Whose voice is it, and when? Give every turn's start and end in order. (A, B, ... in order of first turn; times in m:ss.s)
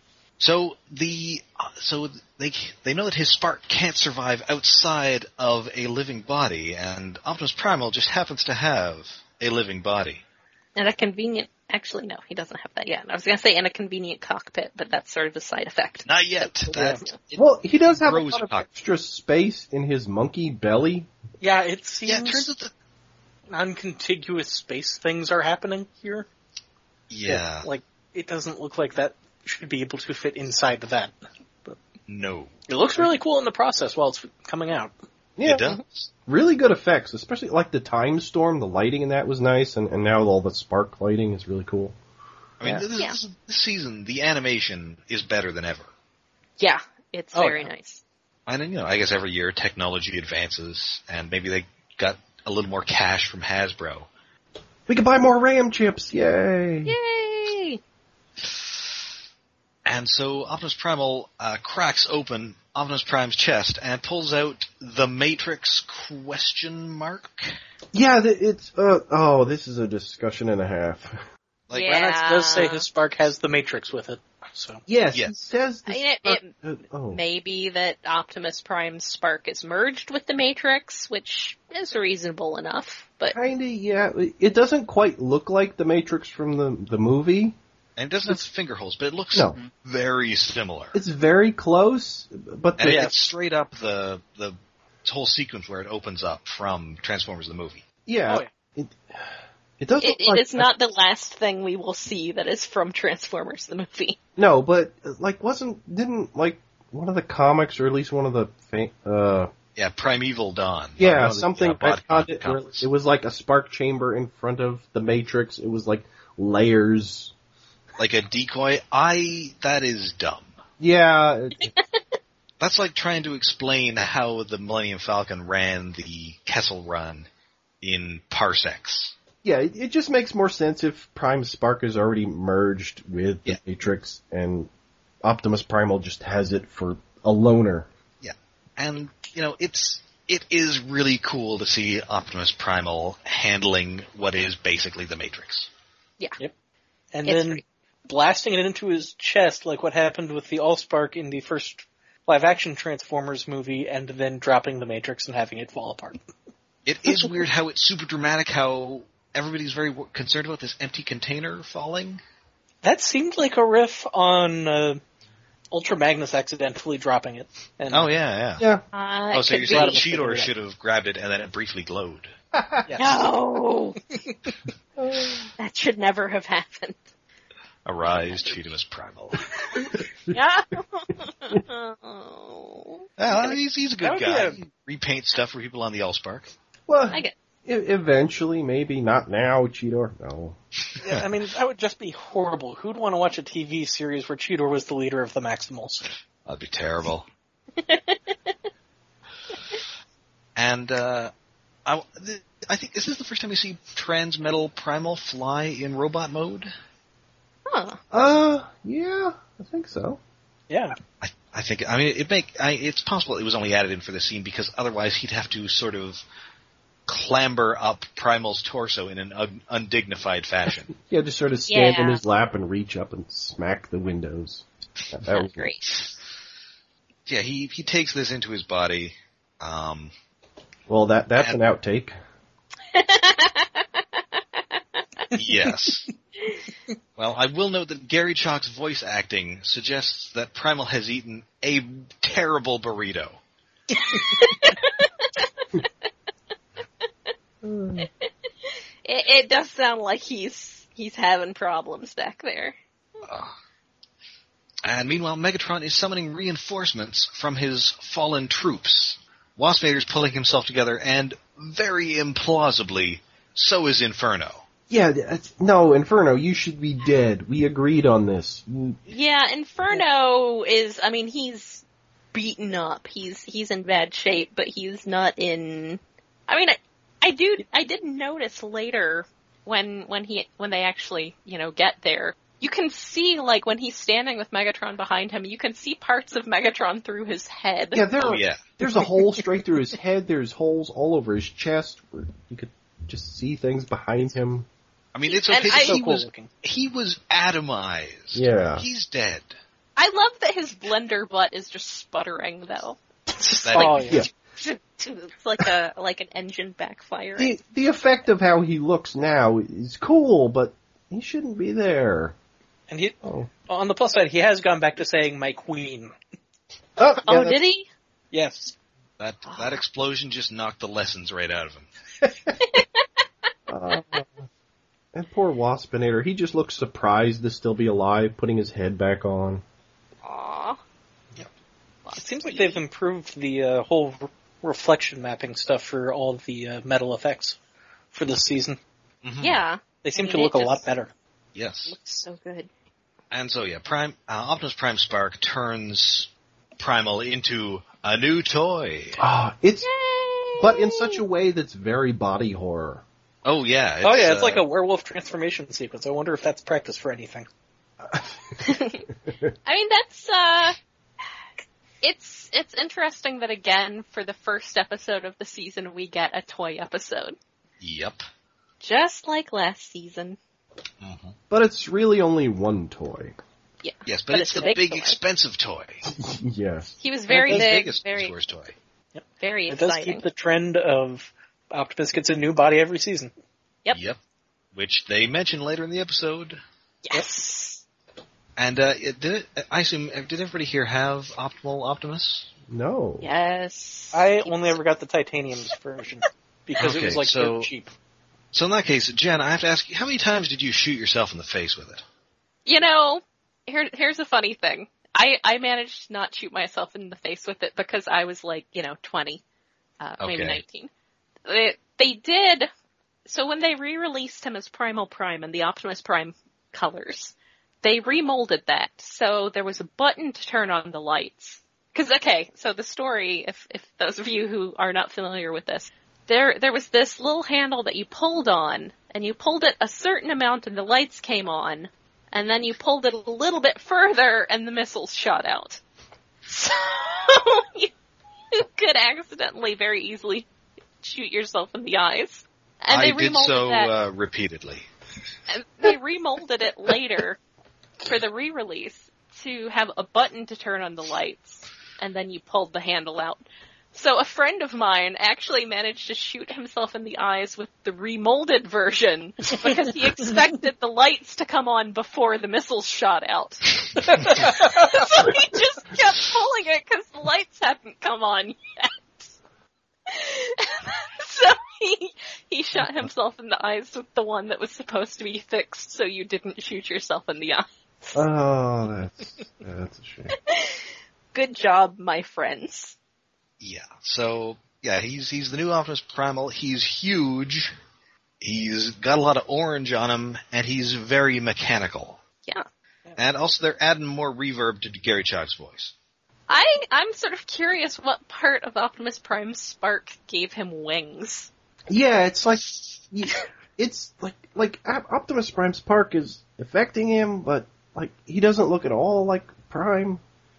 0:00.4-0:10.2 A
0:10.8-0:16.5 B
0:16.0-0:18.7 A
0:16.7-0:17.0 C
0:17.4-0:21.1 D
0:21.4-0:22.5 C
0:22.0-0:22.7 A
0:23.5-0:26.2 C
0:27.1-0:27.7 A
0:27.3-0:31.8 C
0:32.1-0:32.5 A
0:32.7-0:34.9 C
0:35.4-0:35.6 D
0:35.4-0:36.1 A
0:36.3-0:41.9 D
0:42.6-0:45.9 A
0:46.6-0:48.0 B
0:47.3-0:47.7 C
0:48.5-0:54.1 A
0:54.9-0:57.0 D
0:56.8-0:57.8 B
0:59.8-1:07.5 A
1:07.9-1:11.2 D
1:11.7-1:11.9 A
1:11.7-1:12.8 B
1:11.9-1:14.8 C
1:14.9-1:17.2 D
1:15.9-1:16.5 B
1:17.1-1:23.4 B
1:23.3-1:27.6 D
1:28.0-1:31.0 A
1:30.9-1:33.1 D
1:32.8-1:37.8 A
1:32.8-1:33.2 C
1:38.1-1:39.0 D
1:39.8-1:40.7 D
1:40.0-1:44.2 B
1:44.4-1:49.5 D
1:49.8-1:52.9 A
1:51.0-1:57.3 D
1:58.0-2:00.6 A
2:00.8-2:01.7 D
2:02.6-2:07.3 A
2:07.8-2:09.1 A
2:09.4-2:14.7 D
2:15.2-2:17.9 D
2:18.2-2:25.7 A
2:27.1-2:36.2 C
2:27.2-2:27.6 B
2:36.8-2:42.2 A
2:42.8-2:45.0 C
2:45.7-2:48.1 C
2:47.9-2:48.6 A
2:48.9-2:50.0 B
2:49.3-2:52.3 A
2:49.7-2:50.5 C
2:52.5-2:52.9 D
2:52.8-2:53.2 C
2:53.0-2:54.0 B
2:55.0-2:55.5 D
2:55.6-2:57.0 B
2:57.8-2:59.7 A
2:58.1-2:58.6 B
2:59.7-3:03.1 B
3:03.2-3:06.5 A
3:04.0-3:04.6 C
3:06.9-3:10.6 D
3:10.9-3:11.2 A
3:11.0-3:16.0 C
3:16.4-3:17.3 A
3:17.8-3:18.5 B
3:20.6-3:21.3 A
3:21.8-3:26.7 A
3:27.7-3:28.0 B
3:28.1-3:30.2 D
3:30.7-3:31.0 C
3:31.2-3:36.2 A
3:37.1-3:40.9 A
3:40.9-3:45.7 D
3:41.7-3:42.2 B
3:45.3-3:45.8 B
3:47.3-3:50.1 A
3:50.9-3:52.1 D
3:52.9-3:54.2 B
3:55.3-3:56.1 A
3:57.2-4:03.4 A
4:03.9-4:05.8 B
4:07.6-4:08.1 D
4:08.0-4:12.8 B
4:13.2-4:13.5 A
4:14.8-4:24.6 A
4:24.9-4:29.0 D
4:29.1-4:48.0 B
4:47.9-4:54.7 D
4:48.2-4:48.6 A
4:55.1-4:59.5 A
4:55.3-4:56.0 B
4:55.7-4:56.5 C
4:58.3-4:58.8 D
5:00.0-5:07.5 B
5:03.6-5:04.1 A
5:03.7-5:04.2 C
5:07.4-5:12.3 D
5:12.9-5:16.1 C
5:13.2-5:13.5 D
5:17.0-5:17.6 D
5:17.2-5:17.8 B
5:18.3-5:18.7 C
5:19.2-5:21.9 A
5:22.6-5:23.0 B
5:23.7-5:24.4 D
5:25.1-5:29.6 D
5:30.2-5:30.8 B
5:32.0-5:32.8 B
5:32.2-5:37.6 C
5:38.1-5:38.8 C
5:39.2-5:39.6 A
5:39.4-5:40.8 B
5:40.0-5:41.1 C
5:41.5-5:42.0 A
5:41.9-5:42.7 B
5:43.3-5:49.2 A
5:49.2-5:49.9 D
5:49.8-5:51.2 B
5:50.6-5:53.0 D
5:53.4-5:54.6 A
5:54.0-5:57.5 C
5:58.6-5:59.0 B
5:59.6-6:00.8 B
6:02.0-6:07.4 B
6:07.8-6:08.2 A
6:08.8-6:10.4 B
6:11.0-6:11.4 A
6:11.5-6:13.4 D
6:13.8-6:15.2 B
6:14.0-6:16.0 A
6:16.0-6:16.9 D
6:17.0-6:18.3 B
6:17.3-6:17.6 C
6:17.3-6:18.7 A
6:19.1-6:23.3 C
6:19.4-6:20.2 B
6:23.9-6:24.2 A
6:24.7-6:26.6 A
6:27.0-6:27.8 B
6:28.6-6:32.5 A
6:32.7-6:33.3 D
6:33.2-6:34.8 B
6:34.1-6:37.9 C
6:36.8-6:37.7 A
6:38.5-6:42.0 A
6:42.6-6:49.4 B
6:50.0-6:50.9 B
6:50.2-6:50.6 A
6:51.4-6:52.7 B
6:53.2-7:15.8 B
7:16.4-7:17.9 B
7:18.5-7:20.5 B
7:21.0-7:23.9 B
7:22.9-7:24.9 A
7:25.5-7:27.4 B
7:28.0-7:33.4 B
7:33.9-7:49.2 B
7:44.2-7:44.8 C
7:50.1-7:58.2 B
7:58.1-8:00.4 D
8:00.3-8:03.0 B
8:03.6-8:07.7 A
8:08.4-8:12.2 A
8:13.2-8:15.9 A
8:16.5-8:21.5 B
8:21.9-8:30.2 D